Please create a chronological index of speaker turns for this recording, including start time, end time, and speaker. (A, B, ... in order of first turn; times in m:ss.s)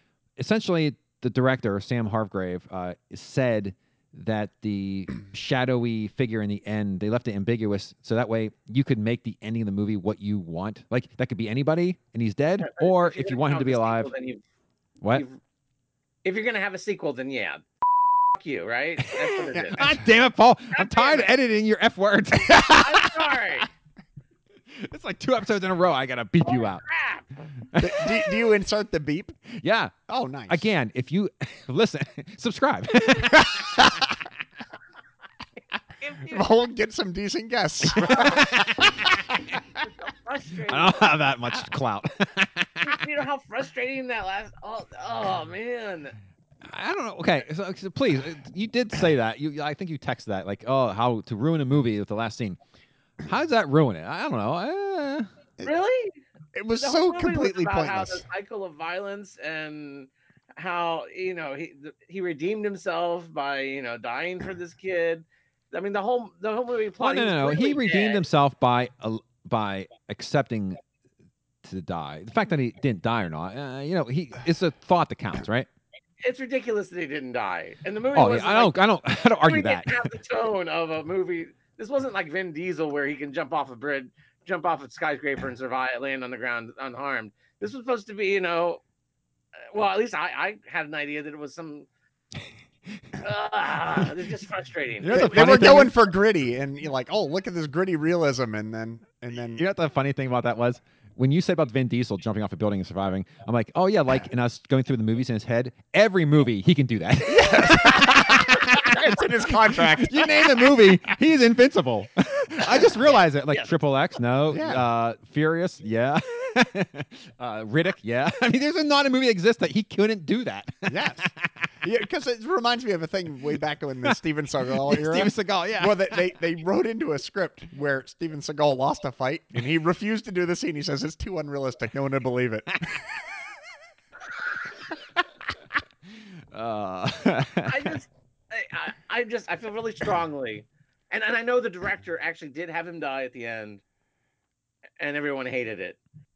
0:00.4-0:14.1 A
0:12.6-0:14.4 B
0:15.1-0:15.4 B
0:16.2-0:17.6 B
0:18.3-0:19.8 B
0:19.5-0:20.0 C
0:19.7-0:23.2 A
0:20.7-0:21.3 B
0:22.7-0:23.7 B
0:24.7-0:26.8 A
0:26.4-0:27.3 B
0:27.7-0:28.2 A
0:27.8-0:29.4 C
0:29.5-0:29.9 A
0:30.1-0:30.7 C
0:30.5-0:33.9 A
0:36.0-0:36.5 B
0:36.3-0:39.0 C
0:38.0-0:39.1 A
0:39.8-0:41.2 B
0:40.7-0:43.0 A
0:42.8-0:46.1 B
0:46.6-0:52.6 A
0:53.2-0:55.3 A
0:55.6-0:56.2 B
0:56.5-0:58.2 C
0:56.8-1:08.2 B
1:07.0-1:10.8 A
1:11.6-1:15.7 A
1:16.2-1:18.8 B
1:18.1-1:20.1 A
1:19.4-1:28.8 B
1:29.7-1:31.9 B
1:33.2-1:35.6 B
1:35.0-1:35.9 A
1:35.1-1:39.6 C
1:39.6-1:49.1 A
1:47.2-1:51.0 C
1:49.7-2:01.3 A
1:54.5-1:54.8 C
2:00.9-2:12.9 C
2:04.8-2:06.2 A
2:16.5-2:18.0 A
2:17.6-2:23.8 B
2:25.0-2:26.0 B